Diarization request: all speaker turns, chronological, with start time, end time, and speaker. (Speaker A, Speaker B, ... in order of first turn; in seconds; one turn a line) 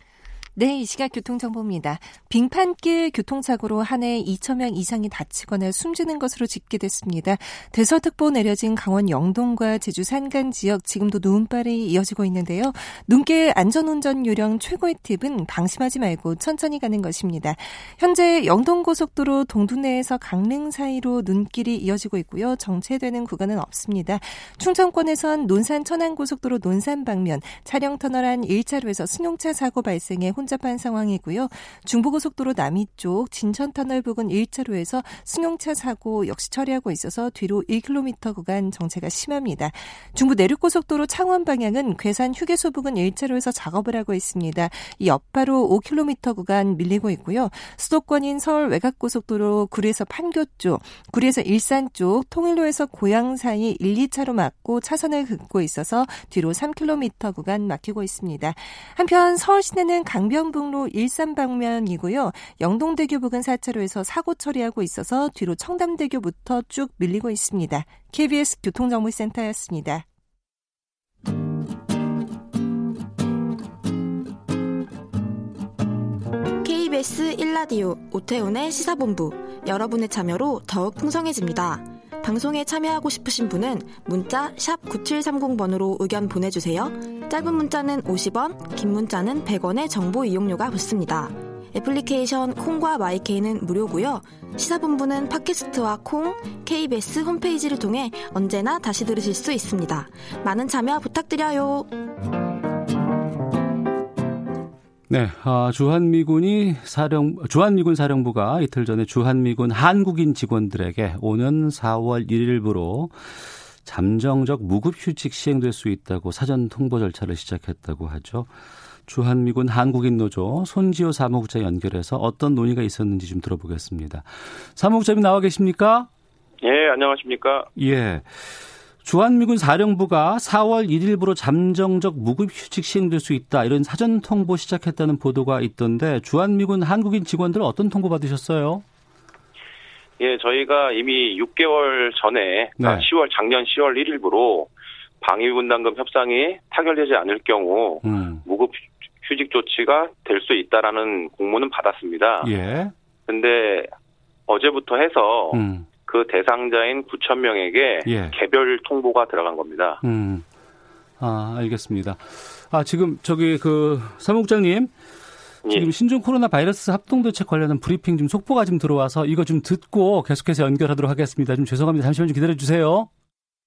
Speaker A: 0.6-70.0
Speaker B: 76.6-101.9
Speaker C: 105.1-118.5
Speaker C: 119.0-126.1
Speaker D: 126.6-127.7
Speaker C: 127.8-138.8
Speaker D: 140.2-144.7
Speaker C: 142.8-143.1
Speaker D: 145.2-152.5
Speaker C: 148.0-148.4
Speaker C: 152.4-152.9
Speaker D: 153.3-153.9
Speaker D: 154.5-160.0
Speaker C: 155.5-155.9
Speaker C: 158.0-158.3
Speaker C: 160.0-160.4
Speaker C: 161.2-164.9
Speaker D: 165.6-165.9
Speaker C: 165.7-173.1